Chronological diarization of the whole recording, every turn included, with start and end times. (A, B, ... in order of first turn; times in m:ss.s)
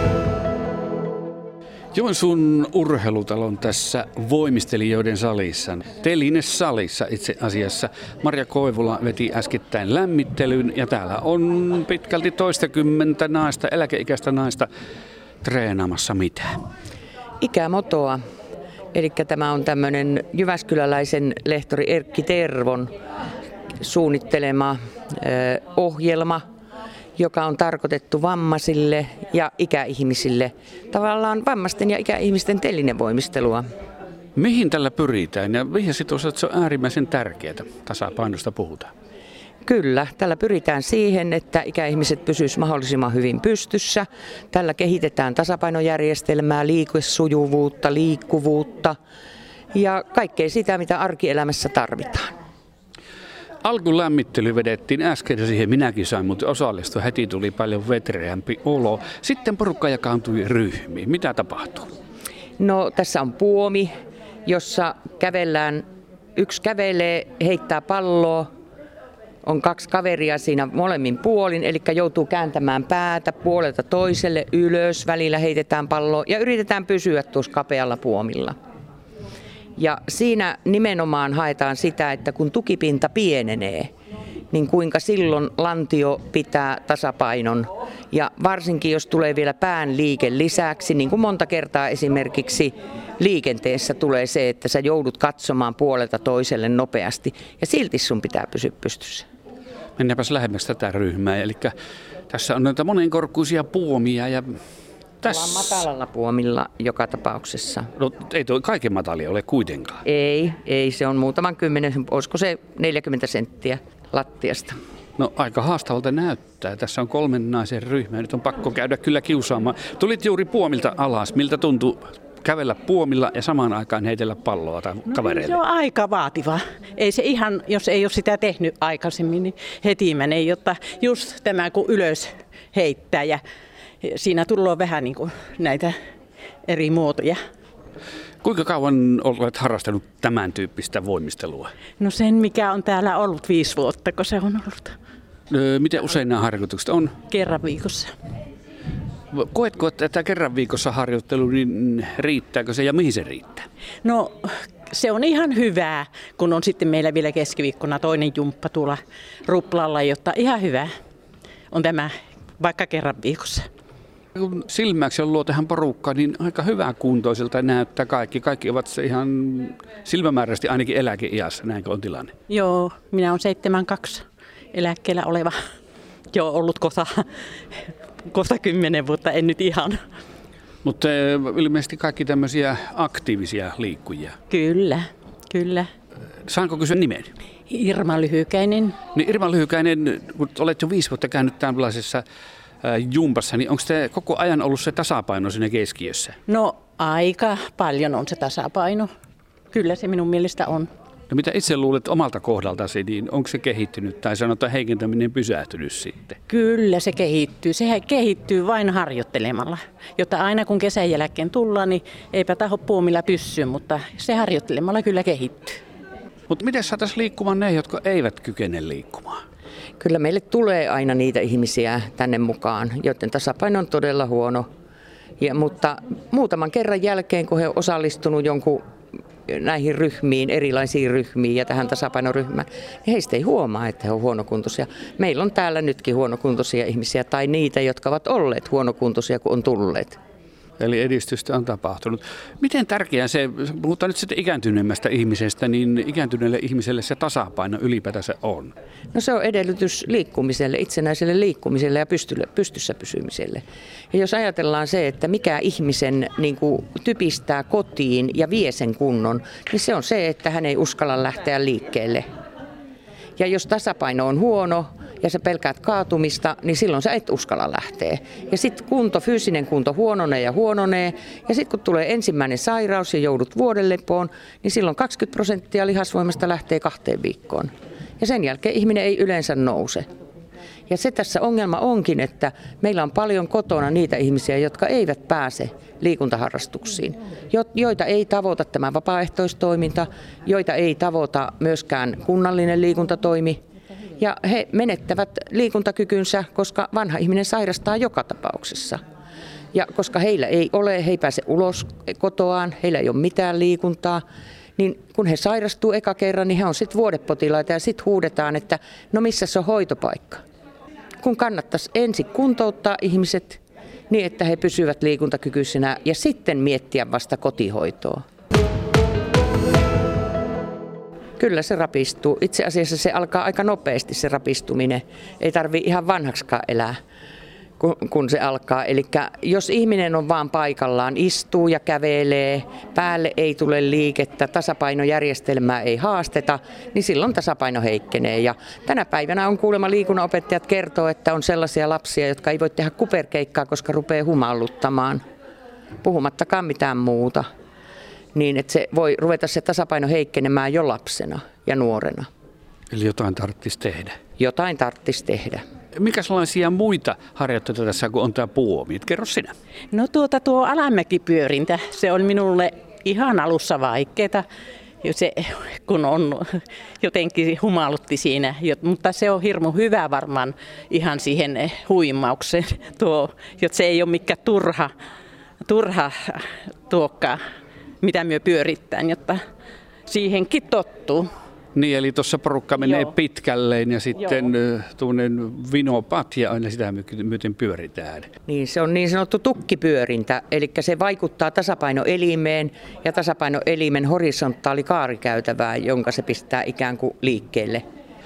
0:01.9-0:14.7 A
0:15.4-0:16.5 A
0:17.4-0:18.2 B
0:18.9-0:22.9 B
0:23.8-0:26.4 B
0:27.2-0:33.6 B
0:34.4-0:38.9 A
0:39.6-0:49.0 B
0:49.7-0:52.3 B
0:53.6-1:01.9 A
1:02.6-1:03.9 B
1:04.5-1:05.8 B
1:06.4-1:08.5 B
1:09.4-1:18.6 B
1:19.8-1:23.9 B
1:24.5-1:39.3 B
1:40.0-1:41.7 A
1:42.3-1:44.5 A
1:45.2-1:45.8 A
1:45.2-1:47.9 B
1:48.0-1:50.0 A
1:50.0-1:54.8 B
1:55.2-2:05.6 A
2:05.1-2:13.4 C
2:14.0-2:15.9 C
2:16.6-2:17.4 C
2:18.4-2:21.7 A
2:22.0-2:24.9 C
2:25.5-2:27.1 A
2:27.3-2:28.1 C
2:29.3-2:33.7 A
2:34.0-2:40.9 C
2:41.7-2:43.6 C
2:44.4-2:52.3 A
2:52.5-2:55.6 C
2:56.3-2:57.2 C
2:58.3-3:00.0 C
3:00.8-3:04.4 A
3:04.5-3:05.9 C
3:06.5-3:07.3 A
3:07.7-3:09.0 C
3:09.1-3:12.2 A
3:12.8-3:16.4 A
3:16.5-3:19.1 C
3:19.7-3:20.9 C
3:21.3-3:26.4 A
3:26.5-3:35.8 C
3:36.5-3:39.4 A
3:40.0-3:44.7 B
3:45.4-3:48.8 B
3:49.5-4:00.2 B
4:00.8-4:08.7 A
4:09.1-4:22.2 B
4:23.4-4:40.1 B
4:40.9-4:53.6 B
4:54.2-4:59.0 B
4:59.7-5:04.2 B
5:04.8-5:10.4 B
5:11.2-5:18.2 B
5:21.4-5:27.0 B
5:27.8-5:45.2 B
5:46.0-5:47.4 B
5:48.4-5:52.3 B
5:52.9-5:54.2 A
5:54.4-5:55.6 B
5:56.0-5:59.5 A
5:59.9-6:04.4 C
6:05.0-6:06.4 C
6:07.0-6:14.9 C
6:15.6-6:17.4 C
6:18.0-6:19.4 C
6:20.1-6:21.3 C
6:21.8-6:28.3 A
6:22.8-6:23.1 C
6:28.5-6:37.8 B